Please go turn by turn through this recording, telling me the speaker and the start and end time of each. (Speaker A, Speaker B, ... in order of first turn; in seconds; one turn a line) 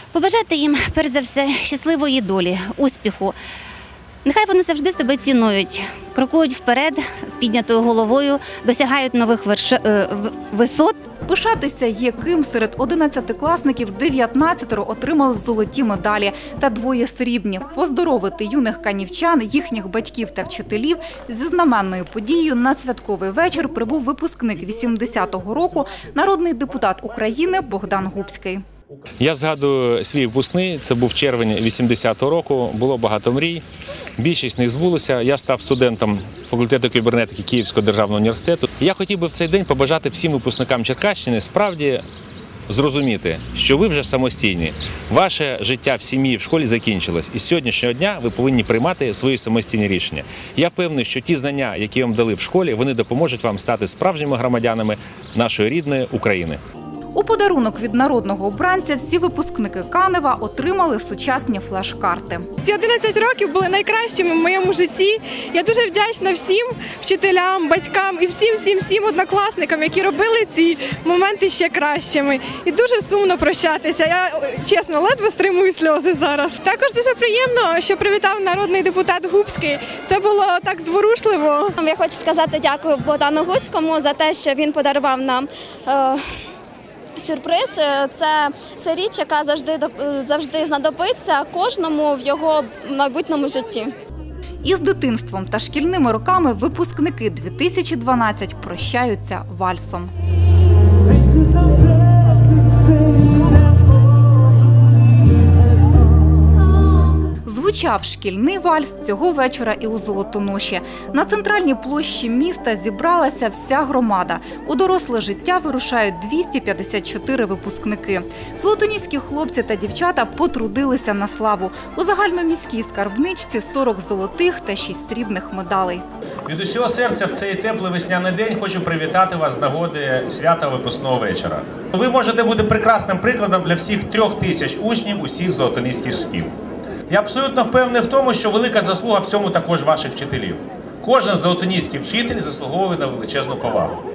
Speaker A: 0.1-3.4
Speaker A: 4.2-11.0
Speaker B: 11.3-28.6
Speaker C: 29.2-33.6
Speaker C: 34.2-42.0
Speaker C: 42.7-56.6
Speaker B: 57.1-62.5
Speaker D: 62.6-81.8
Speaker E: 81.8-86.2
Speaker E: 87.2-93.9
Speaker B: 94.6-100.1
Speaker B: 107.5-126.0
Speaker C: 126.5-136.5
Speaker C: 137.1-144.0